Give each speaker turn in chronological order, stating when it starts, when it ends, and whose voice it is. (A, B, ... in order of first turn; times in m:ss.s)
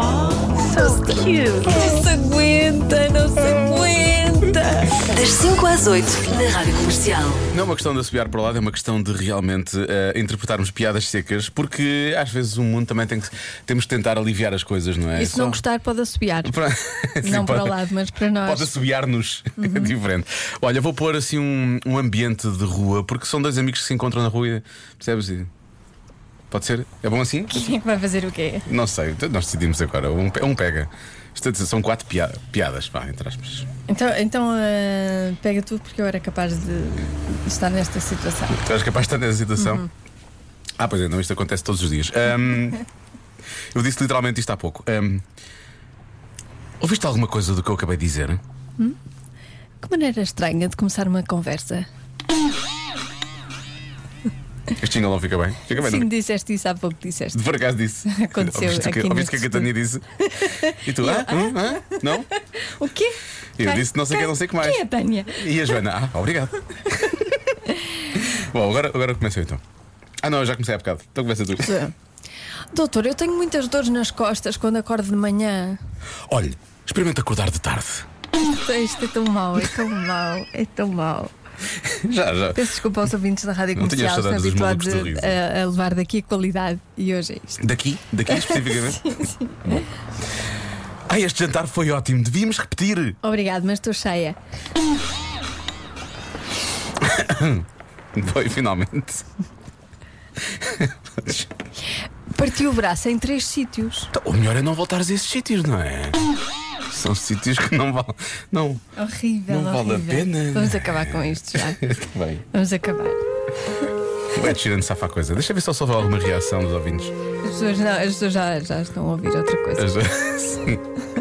0:01.6-0:05.0 A
0:05.2-0:07.4 B
0:07.5-0:15.6 C
0:15.1-0:16.6 A
0:16.4-0:17.8 C
0:17.2-0:18.8 A
0:18.4-0:25.5 C
0:19.6-0:19.9 A
0:26.5-0:27.7 C
0:27.5-0:28.7 A
0:28.7-0:33.7 C
0:33.9-0:38.6 A
0:38.5-0:39.9 C
0:39.6-0:39.9 A
0:40.8-0:42.8 C
0:43.7-0:45.2 C
0:46.8-0:48.4 C
0:49.8-0:51.9 A
0:54.8-0:56.1 C
0:55.7-0:57.4 A
0:57.3-1:00.0 C
0:58.1-0:59.7 A
1:00.3-1:02.0 A
1:00.7-1:02.3 C
1:02.6-1:05.4 A
1:03.6-1:04.8 C
1:05.3-1:07.2 C
1:08.2-1:09.6 C
1:10.2-1:11.8 C
1:11.6-1:11.9 A
1:12.7-1:15.8 A
1:16.3-1:18.1 C
1:18.4-1:21.3 A
1:21.8-1:22.6 C
1:22.5-1:27.6 A
1:23.7-1:25.4 C
1:27.6-1:29.8 C
1:28.3-1:29.7 A
1:31.1-1:33.2 C
1:33.2-1:34.4 A
1:37.0-1:39.2 C
1:40.5-1:41.5 C
1:42.3-1:44.1 A
1:44.1-1:46.2 C
1:46.9-1:48.8 C
1:49.0-1:51.8 A
1:49.5-1:52.4 C
1:52.5-1:53.2 A
1:54.3-1:57.1 C
1:57.4-1:59.9 A
1:59.8-2:00.8 C